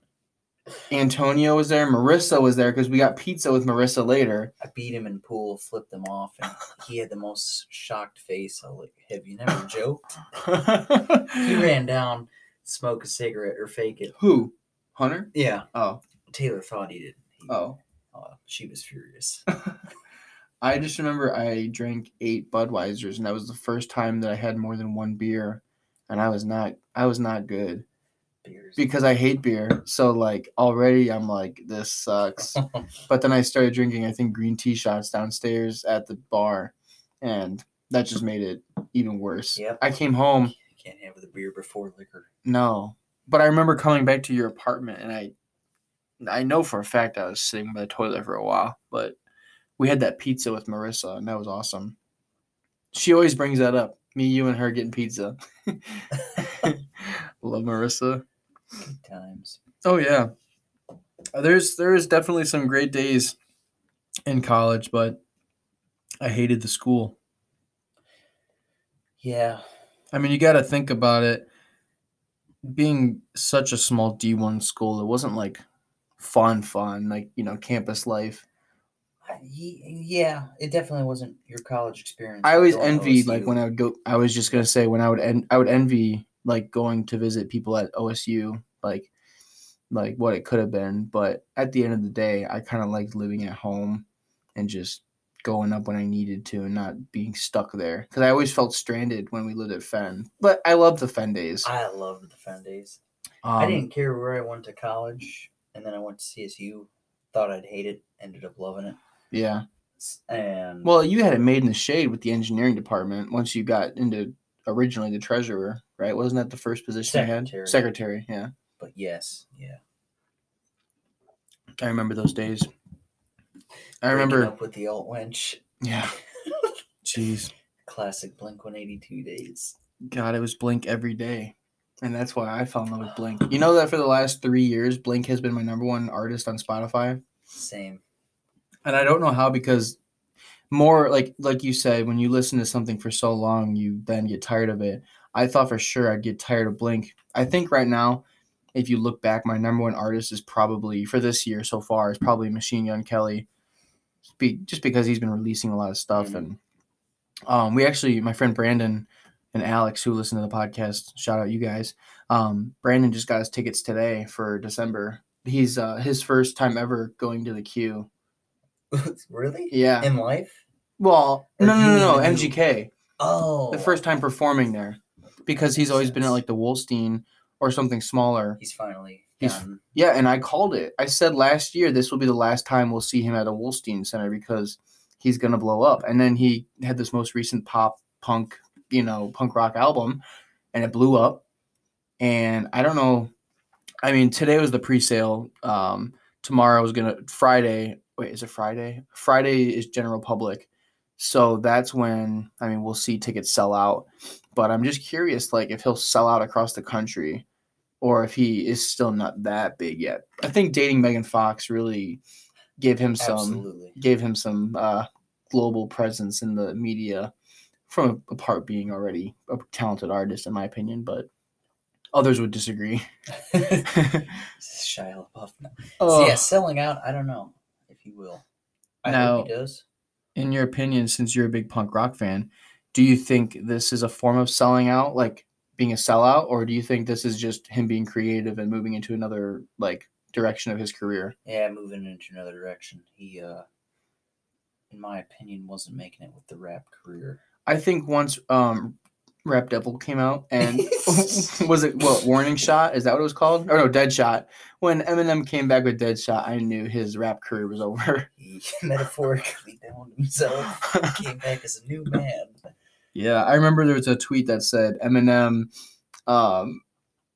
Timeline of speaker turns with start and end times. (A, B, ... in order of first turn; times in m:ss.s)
0:00.9-0:04.5 A
0:04.6-0:10.2 B
0:10.4-0:11.7 A
0:11.4-0:14.2 B
0:14.2-0:16.0 A
0:15.3-0:15.7 B
0:16.3-0:17.6 B
0:17.5-0:17.8 A
0:18.1-0:19.5 B
0:20.6-0:27.8 A
0:28.4-0:29.0 B
0:28.8-0:40.5 A
0:39.6-0:39.8 B
0:40.5-0:42.3 B
0:42.4-0:45.3 A
0:46.2-0:49.2 A
0:49.8-0:52.0 A
0:52.9-0:58.2 A
0:58.8-0:59.6 B
0:59.8-1:00.3 A
1:01.3-1:03.4 A
1:04.2-1:05.2 A
1:06.2-1:07.2 A
1:09.2-1:09.6 B
1:10.1-1:11.5 A
1:12.6-1:15.6 A
1:16.2-1:18.4 A
1:19.2-1:23.6 B
1:22.4-1:29.1 A
1:29.9-1:41.7 A
1:41.6-1:43.0 B
1:43.4-1:43.8 A
1:43.6-1:49.0 B
1:49.3-1:49.6 A
1:50.0-1:50.9 B
1:50.8-1:58.5 A
1:57.1-1:57.9 B
1:58.8-1:59.8 B
2:01.8-2:02.7 A
2:04.0-2:04.5 A
2:04.1-2:05.6 B
2:05.8-2:06.1 A
2:07.0-2:07.5 A
2:07.8-2:09.8 B
2:10.1-2:17.2 A
2:17.5-2:18.0 B
2:18.8-2:20.0 A
2:20.7-2:33.4 A
2:34.2-2:36.6 A
2:36.1-2:36.4 B
2:37.5-2:48.1 A
2:48.9-2:50.6 B
2:49.7-2:50.1 A
2:51.0-2:52.9 A
2:51.6-2:52.6 B
2:53.2-2:54.0 B
2:53.7-2:58.6 A
2:55.5-2:56.3 B
2:58.6-2:59.8 B
2:59.4-3:10.2 A
3:10.7-3:11.4 A
3:12.2-3:13.3 A
3:14.0-3:27.4 A
3:28.0-3:32.2 A
3:32.8-3:37.3 A
3:33.2-3:34.0 B
3:37.9-3:41.3 A
3:42.1-3:43.0 A
3:43.4-3:44.0 B
3:43.9-3:44.3 A
3:44.6-3:48.4 B
3:46.0-3:46.5 A
3:49.0-3:49.8 B
3:49.0-3:49.5 A
3:50.4-4:01.3 A
4:01.4-4:03.6 B
4:04.9-4:07.4 B
4:07.6-4:18.3 A
4:10.6-4:11.6 B
4:18.4-4:22.6 B
4:20.7-4:21.1 A
4:23.1-4:25.7 A
4:26.3-4:26.8 A